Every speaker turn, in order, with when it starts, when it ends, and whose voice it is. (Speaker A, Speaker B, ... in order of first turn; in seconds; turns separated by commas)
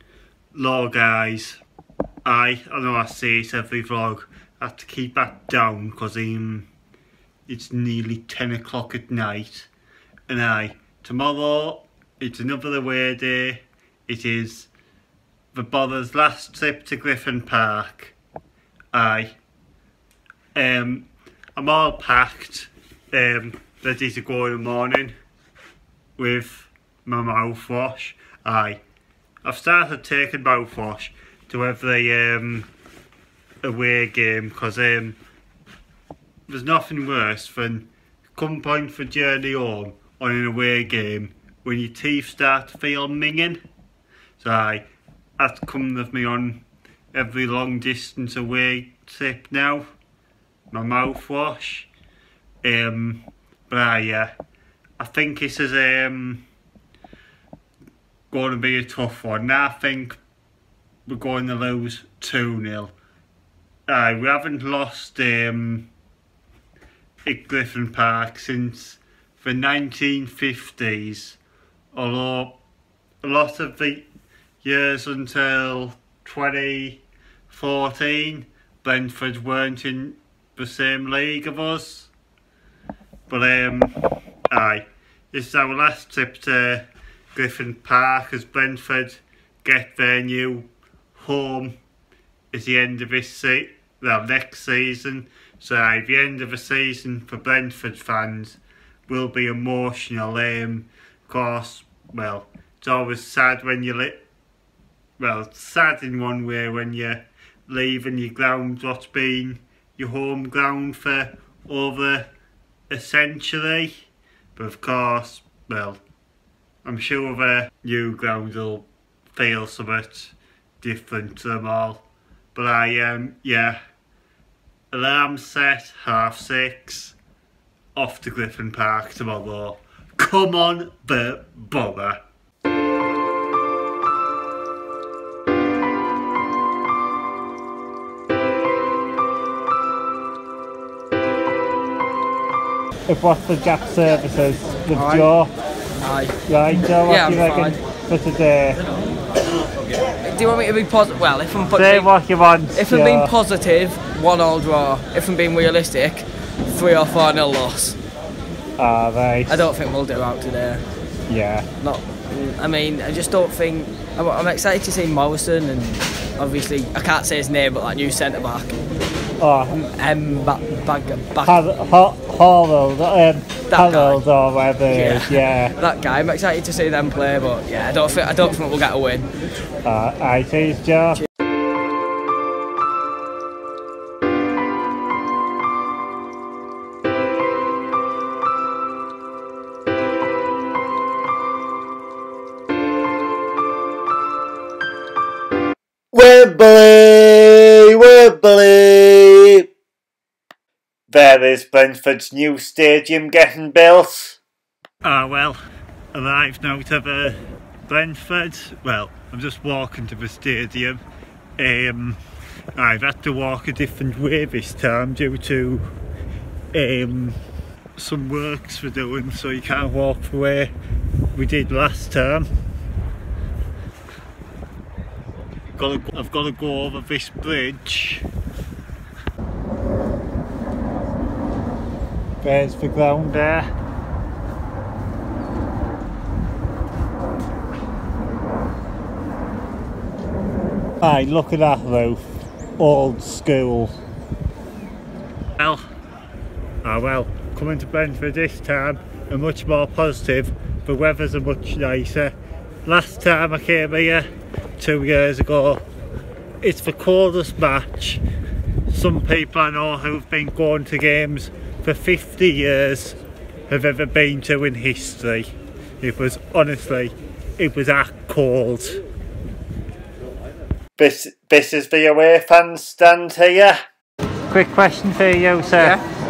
Speaker A: 0.5-1.6, Speaker A: 2.2-6.7, Speaker A: 7.5-9.7, Speaker A: 10.3-14.7, Speaker A: 15.5-18.1, Speaker A: 18.9-19.4, Speaker A: 20.6-25.1, Speaker A: 26.2-28.8, Speaker A: 29.4-32.7, Speaker A: 33.6-35.2, Speaker A: 36.5-43.6, Speaker A: 44.4-44.9, Speaker A: 45.4-49.9, Speaker A: 50.7-51.9, Speaker A: 52.6-54.3, Speaker A: 55.0-56.5, Speaker A: 58.3-60.2, Speaker A: 61.1-62.9, Speaker A: 63.9-65.9, Speaker A: 67.3-71.4, Speaker A: 71.9-72.6, Speaker A: 73.2-74.1, Speaker A: 74.6-82.1, Speaker A: 83.3-84.0, Speaker A: 84.5-91.8, Speaker A: 92.5-104.2, Speaker A: 105.2-112.3, Speaker A: 112.9-113.9, Speaker A: 114.5-116.0, Speaker A: 116.8-123.8, Speaker A: 124.9-127.2, Speaker A: 128.0-132.2, Speaker A: 143.1-145.5, Speaker B: 144.9-145.3, Speaker B: 146.0-146.4, Speaker A: 146.5-148.8, Speaker B: 147.0-147.8, Speaker B: 150.2-152.1, Speaker A: 151.8-153.3, Speaker B: 152.7-158.0, Speaker A: 158.8-159.7, Speaker B: 159.5-160.8, Speaker A: 161.3-161.7, Speaker B: 161.8-168.8, Speaker A: 169.4-169.8, Speaker B: 169.7-171.6, Speaker A: 171.4-175.8, Speaker B: 173.7-174.2, Speaker B: 174.9-179.3, Speaker A: 179.8-181.2, Speaker A: 196.1-199.7, Speaker A: 201.1-204.4, Speaker A: 205.0-205.6, Speaker A: 206.1-211.0, Speaker A: 211.6-212.2, Speaker A: 212.8-215.8, Speaker A: 216.7-217.4, Speaker A: 218.0-220.7, Speaker A: 221.3-222.5, Speaker A: 225.8-228.2, Speaker A: 232.4-233.7, Speaker A: 241.0-242.2, Speaker A: 242.8-243.9, Speaker A: 245.6-245.8, Speaker A: 246.8-252.3, Speaker A: 252.8-254.3, Speaker A: 254.8-255.8, Speaker A: 256.6-258.2, Speaker A: 258.9-263.2, Speaker A: 263.7-269.0, Speaker A: 271.0-273.8, Speaker A: 274.5-276.0